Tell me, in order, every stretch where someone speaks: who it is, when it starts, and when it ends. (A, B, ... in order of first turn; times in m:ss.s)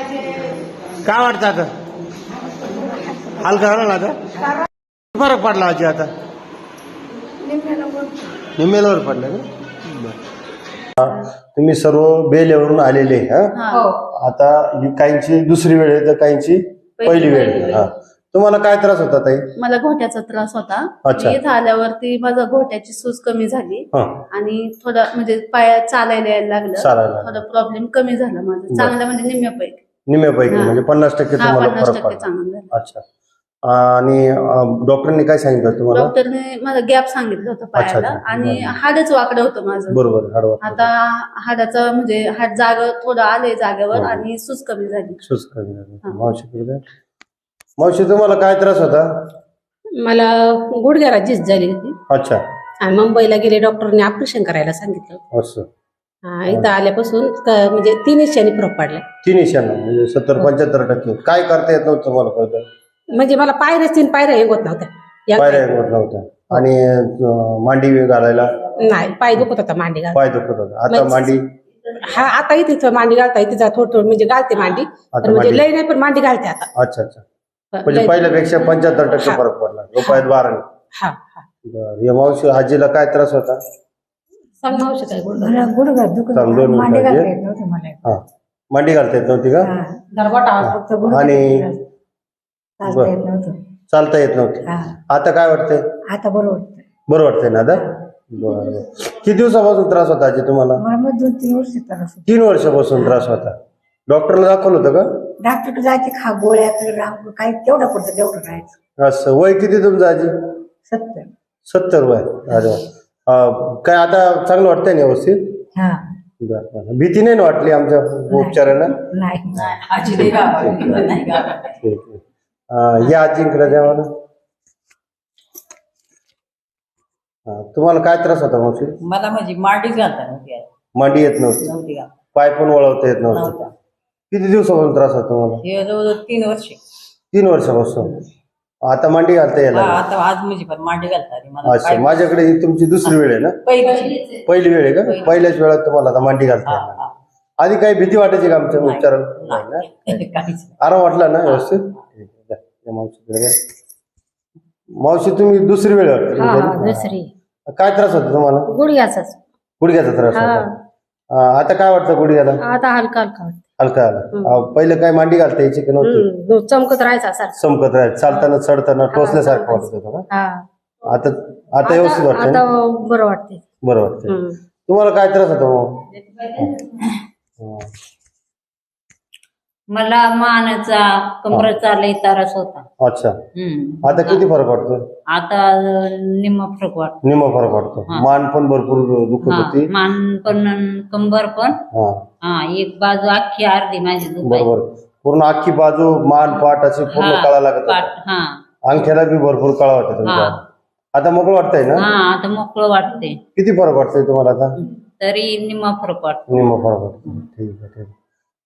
0:01.0-0:01.7 A
0:02.7-0:03.4 B
0:03.4-0:04.2 A
0:05.1-0:06.1 A
0:07.5-0:08.1 B
0:08.6-0:10.1 A
0:11.0-0:19.4 A
0:13.6-0:13.9 C
0:17.0-0:17.9 C
0:19.6-0:29.8 C
0:21.0-0:21.4 A
0:24.0-0:24.2 A
0:26.8-0:27.4 A
0:30.1-0:33.0 A
0:30.5-0:30.8 C
0:31.4-0:32.7 C
0:33.7-0:36.1 A
0:35.9-0:40.0 C
0:37.8-0:38.8 A
0:39.9-0:40.9 A
0:40.6-0:45.2 C
0:43.9-0:44.2 A
0:45.3-0:46.8 A
0:47.8-0:49.1 A
0:50.0-0:52.0 D
0:52.1-0:52.4 A
0:52.8-0:55.2 D
0:55.3-0:55.7 A
0:56.3-0:59.0 D
0:59.2-1:02.6 A
1:03.1-1:05.7 D
1:05.4-1:08.5 A
1:08.9-1:10.2 D
1:10.1-1:11.4 A
1:10.9-1:11.3 D
1:11.9-1:16.7 D
1:15.1-1:15.7 A
1:16.8-1:17.2 A
1:17.7-1:19.4 D
1:17.9-1:20.7 A
1:20.0-1:20.2 D
1:21.0-1:21.4 D
1:21.6-1:23.6 A
1:24.6-1:25.7 D
1:25.4-1:28.2 B
1:26.3-1:27.3 A
1:28.0-1:29.7 A
1:29.6-1:30.0 B
1:30.2-1:30.6 D
1:30.6-1:31.6 A
1:30.6-1:31.8 B
1:32.8-1:33.6 B
1:32.8-1:33.1 A
1:33.9-1:35.8 A
1:34.7-1:35.0 B
1:36.1-1:36.8 B
1:37.1-1:40.8 A
1:40.8-1:42.2 B
1:42.2-1:43.6 A
1:44.1-1:45.1 A
1:45.4-1:48.7 B
1:49.0-1:50.3 A
1:50.9-1:51.3 B
1:51.7-1:55.4 A
1:55.8-1:56.0 B
1:56.4-1:59.0 A
1:58.3-2:00.2 B
1:59.6-2:01.8 E
2:00.1-2:01.2 A
2:01.8-2:04.1 A
2:07.5-2:09.0 A
2:09.0-2:10.7 E
2:11.0-2:11.7 A
2:11.6-2:12.1 E
2:12.3-2:13.6 A
2:13.3-2:13.7 E
2:14.3-2:15.6 A
2:15.6-2:16.8 E
2:17.3-2:18.2 A
2:18.9-2:20.1 A
2:19.7-2:22.4 E
2:21.6-2:23.6 A
2:23.0-2:24.2 E
2:23.9-2:24.2 F
2:24.5-2:27.0 A
2:25.0-2:25.5 E
2:26.6-2:27.1 E
2:27.6-2:30.1 A
2:28.8-2:30.8 E
2:30.8-2:33.6 A
2:35.0-2:37.1 A
2:36.4-2:37.3 D
2:37.7-2:38.7 A
2:38.7-2:39.4 D
2:39.8-2:40.7 A
2:40.3-2:40.7 D
2:41.3-2:42.6 A
2:42.6-2:43.6 D
2:43.8-2:46.3 A
2:46.0-2:47.6 D
2:47.6-2:50.2 A
2:49.1-2:50.6 D
2:51.1-2:52.6 A
2:51.8-2:53.6 D
2:53.8-2:56.0 A
2:54.3-2:54.6 D
2:57.6-2:57.9 A
2:59.9-3:02.8 F
3:03.0-3:03.4 A
3:03.6-3:04.4 F
3:04.0-3:05.0 A
3:05.4-3:07.2 F
3:07.2-3:09.9 A
3:09.5-3:11.8 F
3:11.9-3:12.2 A
3:12.4-3:14.7 F
3:14.4-3:18.1 A
3:17.1-3:18.4 F
3:18.9-3:20.6 A
3:20.3-3:20.6 F
3:21.2-3:22.0 A
3:22.0-3:23.4 F
3:23.6-3:24.7 A
3:25.2-3:26.7 F
3:26.5-3:28.1 A